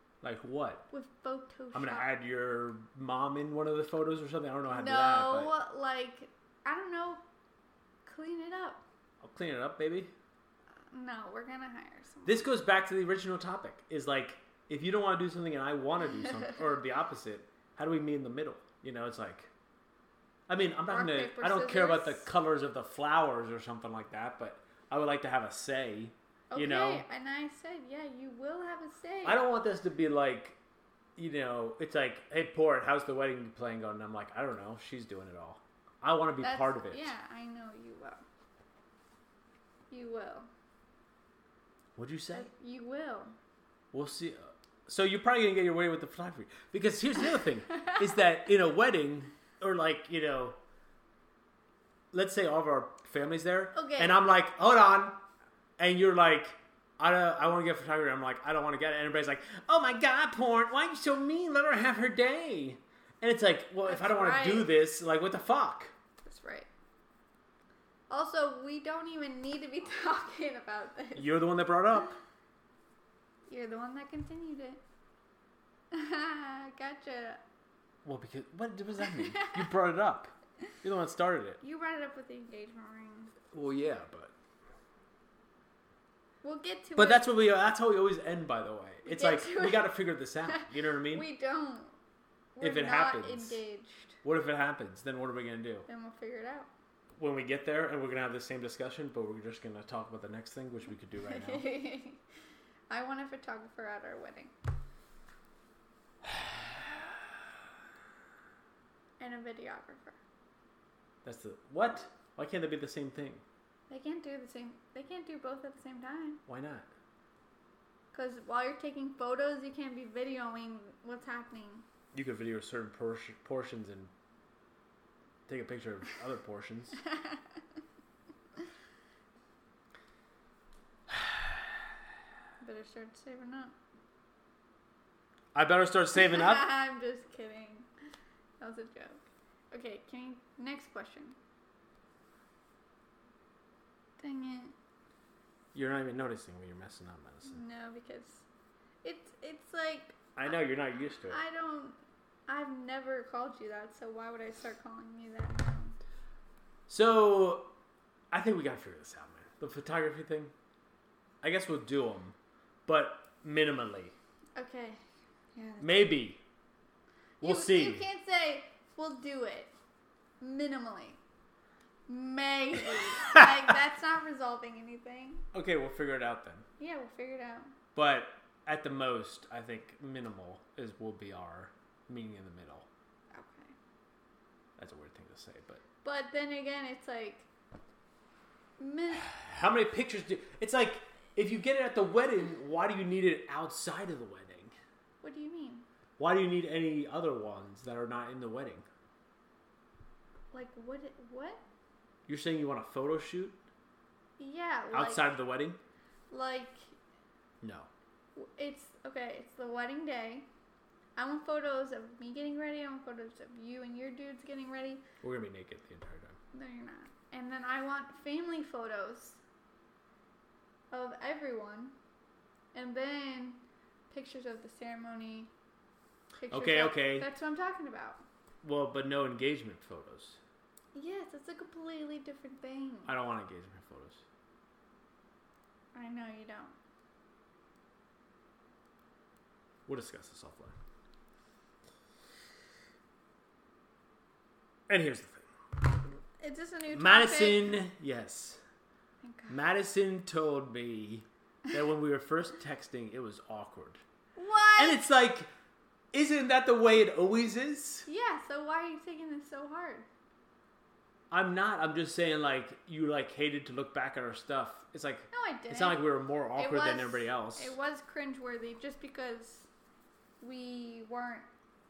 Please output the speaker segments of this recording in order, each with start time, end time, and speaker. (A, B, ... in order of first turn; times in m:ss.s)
0:00.2-0:00.8 A
0:00.9-0:02.1 B
0:01.7-0:05.5 A
0:04.7-0:07.2 B
0:08.0-0:08.8 B
0:09.2-0:10.1 A
0:10.9-0:12.5 B
0:12.2-0:19.5 A
0:20.5-0:27.0 A
0:20.9-0:22.2 B
0:26.5-0:29.4 B
0:29.2-0:30.6 A
0:31.2-0:37.1 A
0:36.4-0:38.2 B
0:39.9-0:40.5 B
0:42.0-0:42.5 A
0:42.3-0:43.4 B
0:43.9-0:50.6 A
0:52.1-0:55.2 A
0:53.7-0:54.2 B
0:55.8-1:05.9 A
1:03.8-1:04.7 B
1:06.2-1:06.7 B
1:08.1-1:11.4 B
1:11.2-1:12.2 A
1:13.5-1:14.8 B
1:15.9-1:17.4 B
1:18.0-1:21.6 A
1:19.3-1:19.6 B
1:21.6-1:23.3 B
1:23.5-1:24.3 A
1:26.4-1:27.2 B
1:27.0-1:31.3 A
1:29.0-1:32.0 B
1:32.6-1:34.2 B
1:32.6-1:33.6 A
1:34.2-1:35.9 A
1:35.9-1:36.7 B
1:37.2-1:41.7 A
1:41.2-1:42.2 B
1:42.9-1:44.5 B
1:49.2-1:50.2 B
1:51.2-1:53.4 A
1:53.9-1:56.4 B
1:56.5-1:56.9 A
1:58.1-2:01.8 B
2:02.1-2:04.1 A
2:05.5-2:07.0 A
2:07.1-2:07.4 B
2:11.1-2:11.6 A
2:12.6-2:13.7 B
2:15.5-2:16.8 A
2:16.2-2:17.9 B
2:18.6-2:21.4 B
2:24.2-2:24.7 B
2:25.7-2:27.6 A
2:27.4-2:28.4 B
2:29.0-2:30.3 B
2:30.3-2:31.4 A
2:31.2-2:36.0 B
2:36.9-2:37.7 A
2:38.3-2:40.5 A
2:41.4-2:44.2 A
2:44.6-2:45.0 B
2:45.5-2:46.2 B
2:45.8-2:46.4 A
2:47.4-2:48.0 A
2:47.4-2:49.7 B
2:50.4-2:51.2 B
2:52.1-2:55.4 B
2:55.5-2:56.6 A
2:56.8-2:57.7 B
2:57.9-3:02.9 A
3:03.3-3:03.7 B
3:04.8-3:05.8 A
3:06.0-3:07.5 B
3:08.8-3:09.3 B
3:09.2-3:14.7 A
3:15.2-3:15.9 B
3:16.2-3:18.8 A
3:20.5-3:21.6 B
3:22.3-3:23.6 A
3:24.4-3:25.3 B
3:24.9-3:25.8 A
3:26.3-3:27.0 B
3:27.6-3:27.9 A
3:28.4-3:30.5 B
3:31.2-3:35.0 B
3:35.2-3:36.4 A
3:36.5-3:39.4 B
3:40.9-3:42.0 B
3:42.7-3:45.5 B
3:46.4-3:48.2 B
3:46.5-3:47.3 A
3:48.6-3:50.4 A
3:50.9-3:53.1 B
3:53.0-3:54.2 A
3:55.9-3:56.7 B
3:59.9-4:00.7 A
4:04.9-4:05.5 A
4:06.4-4:07.8 B
4:06.9-4:08.6 A
4:09.2-4:09.6 B
4:09.5-4:14.0 A
4:14.4-4:15.0 B
4:14.8-4:15.5 A
4:16.1-4:18.1 A
4:18.0-4:20.0 B
4:21.3-4:27.7 A
4:25.3-4:26.0 B
4:26.6-4:29.7 B
4:30.4-4:31.5 B